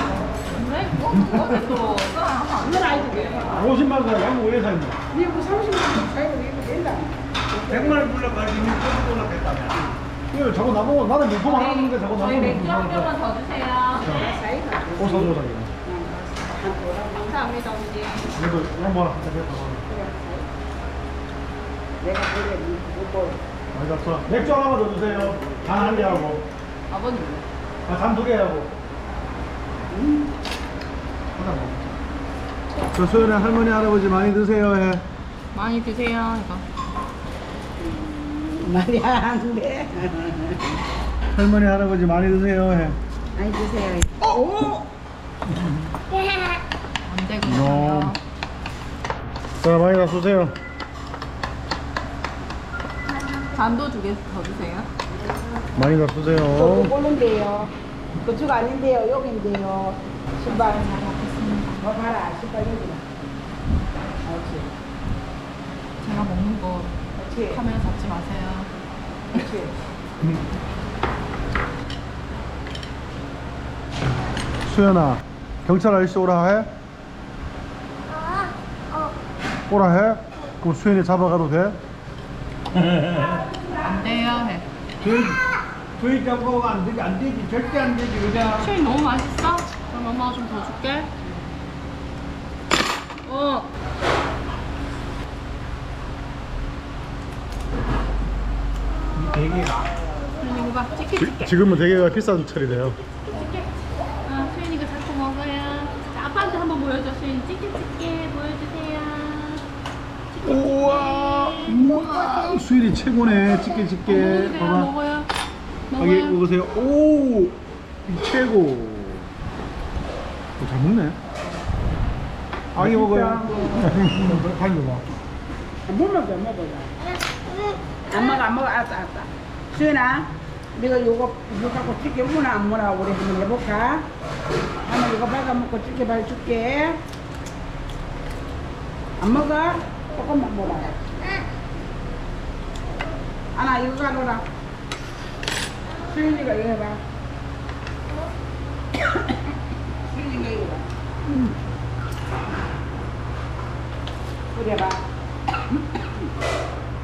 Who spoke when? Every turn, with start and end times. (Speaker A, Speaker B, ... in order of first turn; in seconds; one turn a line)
Speaker A: 0.2-3.5
Speaker B: 1.1-1.6
Speaker C: 2.6-3.7
Speaker B: 3.5-5.0
Speaker C: 5.1-8.1
Speaker D: 7.7-9.8
Speaker B: 10.3-13.1
Speaker A: 11.4-14.4
Speaker B: 14.0-14.3
Speaker C: 14.0-17.4
Speaker B: 14.9-15.7
Speaker A: 17.2-18.3
Speaker B: 18.3-19.9
Speaker C: 19.9-20.5
Speaker C: 22.0-23.4
Speaker B: 23.7-26.4
Speaker C: 24.8-26.4
Speaker A: 26.9-27.4
Speaker B: 27.9-28.7
Speaker C: 29.9-30.4
Speaker B: 31.3-32.0
Speaker B: 32.9-35.0
Speaker A: 35.5-36.6
Speaker C: 37.8-40.7
Speaker B: 41.3-43.0
Speaker C: 43.4-44.9
Speaker E: 46.1-46.6
Speaker A: 47.0-48.2
Speaker B: 47.4-48.1
Speaker B: 49.6-50.5
Speaker A: 53.5-54.9
Speaker B: 55.7-56.9
Speaker C: 56.5-60.9
Speaker A: 60.4-61.9
Speaker C: 61.8-63.0
Speaker C: 64.2-64.7
Speaker A: 66.0-68.7
Speaker C: 67.2-67.6
Speaker C: 69.3-69.7
Speaker B: 74.6-76.7
Speaker E: 78.1-79.2
Speaker B: 79.7-81.8
Speaker D: 82.7-83.5
Speaker A: 83.8-84.7
Speaker D: 85.0-85.4
Speaker D: 86.0-88.7
Speaker A: 88.6-91.1
Speaker A: 93.2-93.7
Speaker D: 99.1-99.9
Speaker A: 100.4-101.6
Speaker B: 101.2-103.0
Speaker E: 103.1-103.4
Speaker A: 103.3-103.7
Speaker A: 104.2-109.6
Speaker A: 110.3-111.7
Speaker B: 110.4-114.9
Speaker E: 111.7-112.6
Speaker A: 114.1-115.3
Speaker A: 115.9-116.4
Speaker B: 116.0-119.3
Speaker B: 120.6-121.2
Speaker B: 122.7-125.2
Speaker D: 122.8-124.4
Speaker C: 125.9-126.9
Speaker E: 127.0-128.4
Speaker C: 128.1-134.1
Speaker C: 134.8-137.0
Speaker C: 139.2-141.2
Speaker C: 143.5-144.4
Speaker C: 146.1-147.0
Speaker C: 150.1-150.8
Speaker C: 154.5-155.0